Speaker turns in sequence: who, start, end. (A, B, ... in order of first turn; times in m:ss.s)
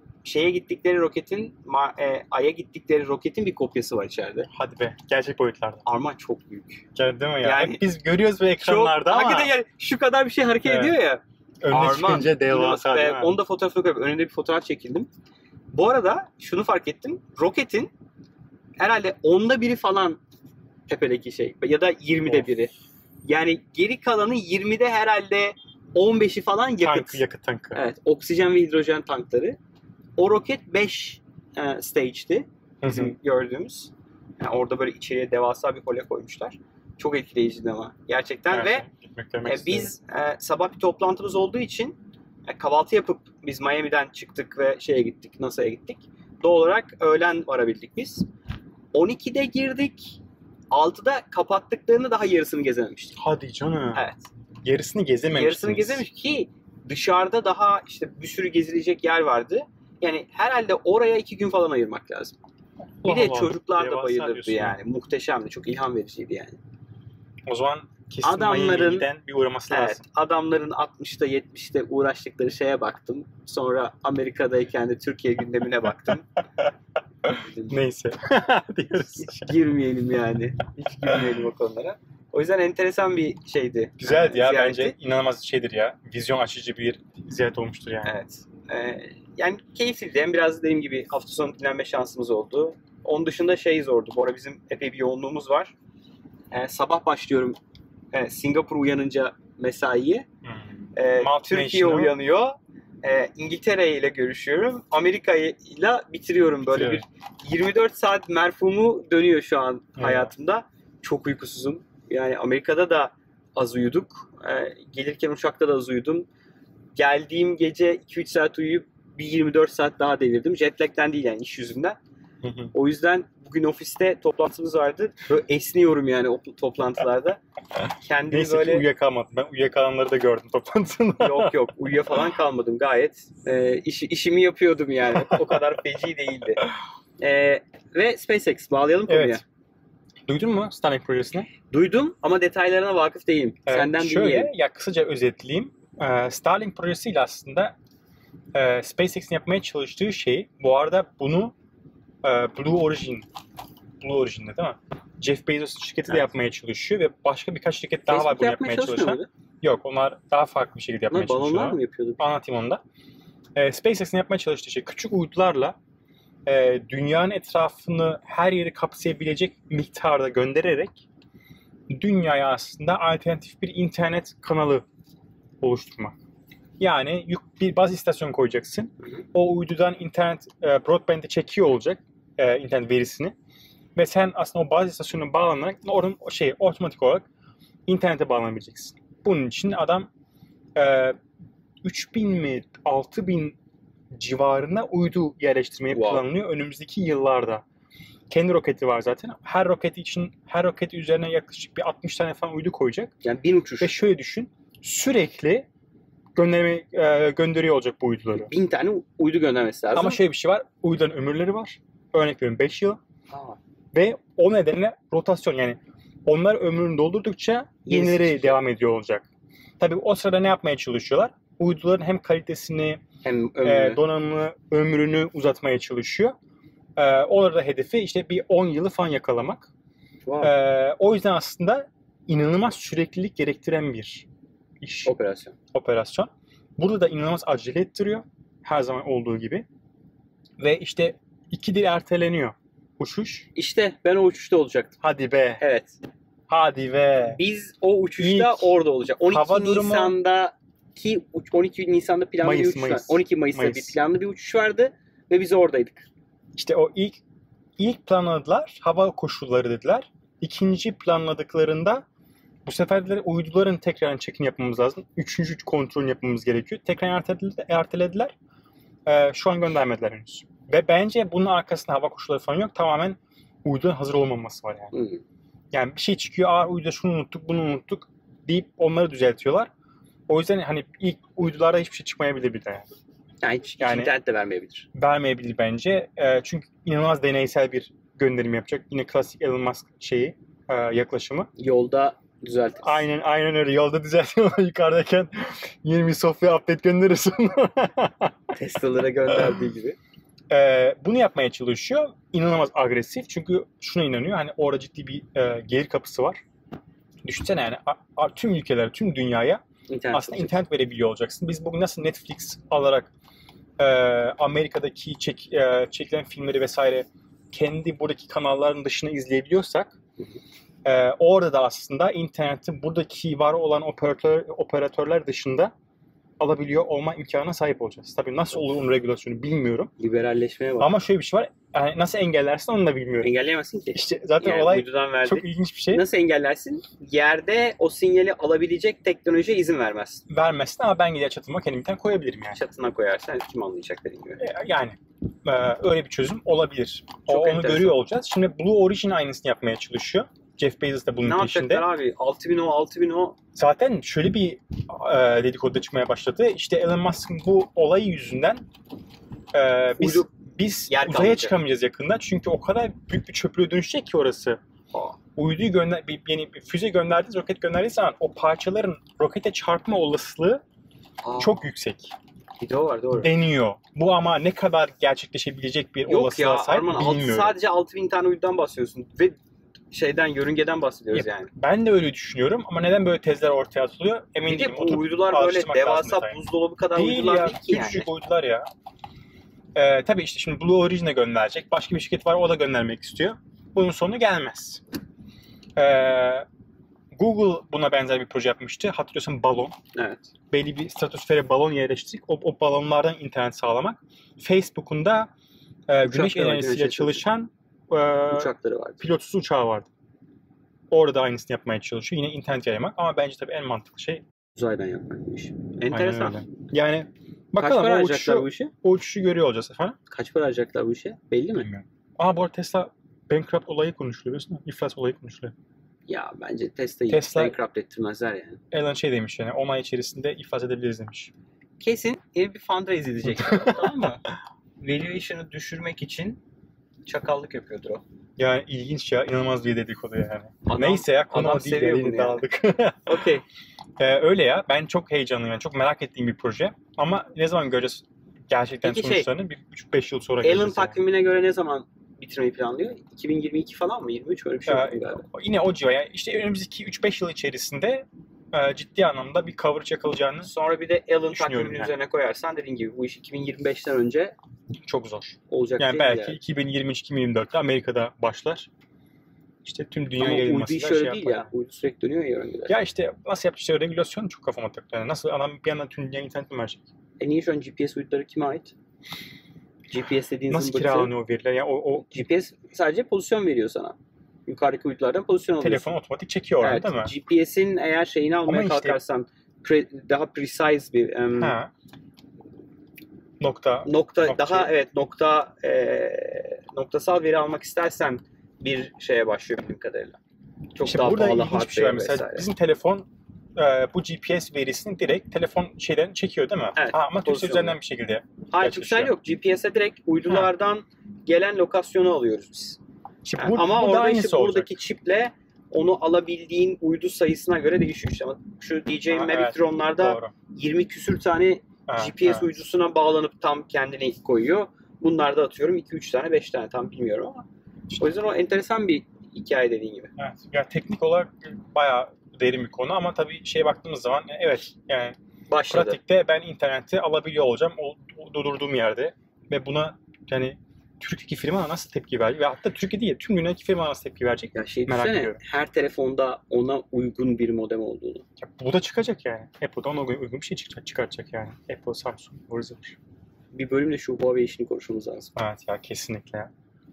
0:00.2-0:04.5 A
0:04.5-0:05.8 B
0:05.8-0:06.8 A
0:07.0-0:09.5 B
0:07.4-0:07.8 A
0:08.6-0:15.1 A
0:10.6-0:11.0 B
0:11.6-0:13.4 B
0:15.7-0:17.9 A
0:18.8-0:20.2 A
0:20.9-0:22.7 A
0:23.2-0:27.2 A
0:26.8-0:27.8 B
0:27.7-0:29.6 A
0:30.2-0:38.8 A
0:32.8-0:33.1 B
0:38.5-0:39.9 B
0:39.4-0:48.2 A
0:48.9-0:50.2 A
0:50.7-0:53.2 A
0:53.2-0:54.0 B
0:53.9-0:54.2 A
0:54.6-0:56.0 B
0:55.3-1:02.4 A
1:03.0-1:04.8 B
1:03.0-1:06.6 A
1:07.5-1:10.0 B
1:08.2-1:09.1 A
1:09.7-1:16.3 A
1:17.3-1:19.5 B
1:17.3-1:17.8 A
1:18.9-1:25.0 A
1:24.0-1:28.1 B
1:28.0-1:35.7 A
1:36.5-1:37.6 A
1:38.1-1:40.2 A
1:40.4-1:42.1 B
1:40.9-1:56.3 A
1:46.7-1:47.0 B
1:50.0-1:50.3 B
1:57.0-2:02.0 A
2:02.4-2:02.7 B
2:02.7-2:07.4 A
2:08.0-2:08.8 A
2:08.3-2:11.5 B
2:11.2-2:16.6 A
2:15.1-2:15.6 B
2:17.2-2:19.4 A
2:19.1-2:19.4 B
2:20.3-2:21.5 B
2:21.7-2:24.5 A
2:23.6-2:27.7 B
2:28.5-2:31.5 B
2:32.2-2:33.2 B
2:34.0-2:42.8 B
2:38.1-2:39.3 A
2:41.1-2:42.2 A
2:43.6-2:45.8 B
2:46.4-2:51.0 B
2:51.9-2:54.8 B
2:55.6-2:56.2 B
2:56.8-3:03.3 B
3:03.9-3:07.2 B
3:07.9-3:10.1 B
3:10.8-3:11.2 B
3:11.8-3:13.6 B
3:14.1-3:17.6 B
3:15.9-3:16.2 A
3:18.3-3:23.1 B
3:23.2-3:24.0 A
3:23.8-3:25.7 B
3:26.4-3:28.5 B
3:28.3-3:30.2 A
3:29.9-3:33.0 B
3:33.3-3:33.6 A
3:33.9-3:39.2 B
3:37.8-3:38.6 A
3:39.8-3:43.0 B
3:43.2-3:44.0 A
3:43.6-3:46.3 B
3:47.0-3:49.7 B
3:50.2-3:50.5 A
3:50.4-3:54.2 B
3:54.8-3:55.1 B
3:55.0-3:55.5 A
3:55.7-3:59.6 B
4:00.6-4:03.5 B
4:03.5-4:05.0 A
4:05.0-4:05.6 B
4:05.6-4:05.9 A
4:06.5-4:07.4 B
4:07.2-4:16.1 A
4:08.2-4:08.8 B
4:09.3-4:10.2 B
4:12.4-4:14.0 B
4:16.6-4:17.2 B
4:17.8-4:22.0 B
4:22.6-4:28.3 B
4:29.0-4:34.9 B
4:34.9-4:35.2 A
4:35.7-4:39.7 B
4:40.3-4:42.9 B
4:43.4-4:44.9 A
4:43.8-4:44.1 B
4:44.9-4:51.5 B
4:51.6-4:53.0 A
4:52.8-4:58.3 B
4:58.5-5:00.0 A
5:00.5-5:06.4 B
5:07.2-5:13.1 B
5:09.9-5:10.6 A
5:13.8-5:19.9 B
5:20.8-5:25.7 B
5:26.4-5:29.9 B
5:30.0-5:30.9 A
5:30.8-5:33.3 B
5:33.2-5:40.2 A
5:33.9-5:36.0 B
5:40.3-5:42.6 B
5:42.5-5:44.4 A
5:44.4-5:51.8 B
5:47.3-5:48.0 A
5:51.2-5:53.4 A
5:53.5-5:58.6 B
5:59.5-6:04.6 B
6:00.0-6:00.3 A
6:00.9-6:01.5 A
6:04.9-6:05.2 A
6:05.4-6:10.6 B
6:11.2-6:11.7 A
6:11.4-6:12.1 B
6:12.6-6:13.3 A
6:13.1-6:17.5 B
6:16.1-6:19.4 A
6:19.9-6:21.5 A
6:21.1-6:26.4 B
6:24.4-6:28.1 A
6:26.9-6:28.7 B
6:29.7-6:34.8 B
6:35.8-6:36.4 B
6:37.1-6:39.7 B
6:39.9-6:40.3 A
6:40.5-6:45.3 B
6:45.9-6:49.9 B
6:46.0-6:47.2 A
6:48.3-6:49.0 A
6:50.9-6:54.2 B
6:54.6-6:56.4 A
6:55.9-7:00.0 B
6:57.6-6:58.7 A
7:00.1-7:01.7 A
7:01.6-7:05.5 B
7:06.1-7:08.6 A
7:07.1-7:07.6 B
7:08.7-7:11.3 B
7:11.8-7:14.2 A
7:13.3-7:14.1 B
7:14.8-7:16.4 A
7:17.0-7:18.0 A
7:18.4-7:23.2 B
7:20.6-7:22.4 A
7:23.0-7:23.4 A
7:24.0-7:31.0 B
7:28.8-7:29.3 A
7:30.4-7:35.2 A
7:34.7-7:40.5 B
7:40.4-7:44.4 A
7:41.3-7:41.9 B
7:44.8-7:48.7 B
7:45.5-7:46.4 A
7:49.6-7:51.5 B
7:50.2-7:52.7 A
7:52.7-7:56.8 B
7:57.2-7:58.7 A
7:59.9-8:01.1 A
8:00.5-8:02.1 B
8:02.1-8:04.0 A
8:04.5-8:05.9 A
8:05.6-8:07.1 B
8:06.6-8:11.6 A
8:08.4-8:09.0 B
8:11.4-8:11.7 B
8:13.4-8:14.7 B
8:13.8-8:20.2 A
8:20.7-8:22.4 A
8:20.8-8:29.1 B
8:26.7-8:27.8 A
8:28.5-8:32.8 A
8:33.2-8:34.8 B
8:33.4-8:47.4 A
8:39.1-8:40.3 B
8:41.9-8:42.6 B
8:48.0-8:50.1 A
8:50.2-8:55.2 B
8:55.5-8:56.0 A
8:55.7-9:05.4 B
9:04.5-9:08.2 A
9:08.4-9:13.0 B
9:13.5-9:15.3 A
9:15.4-9:16.5 B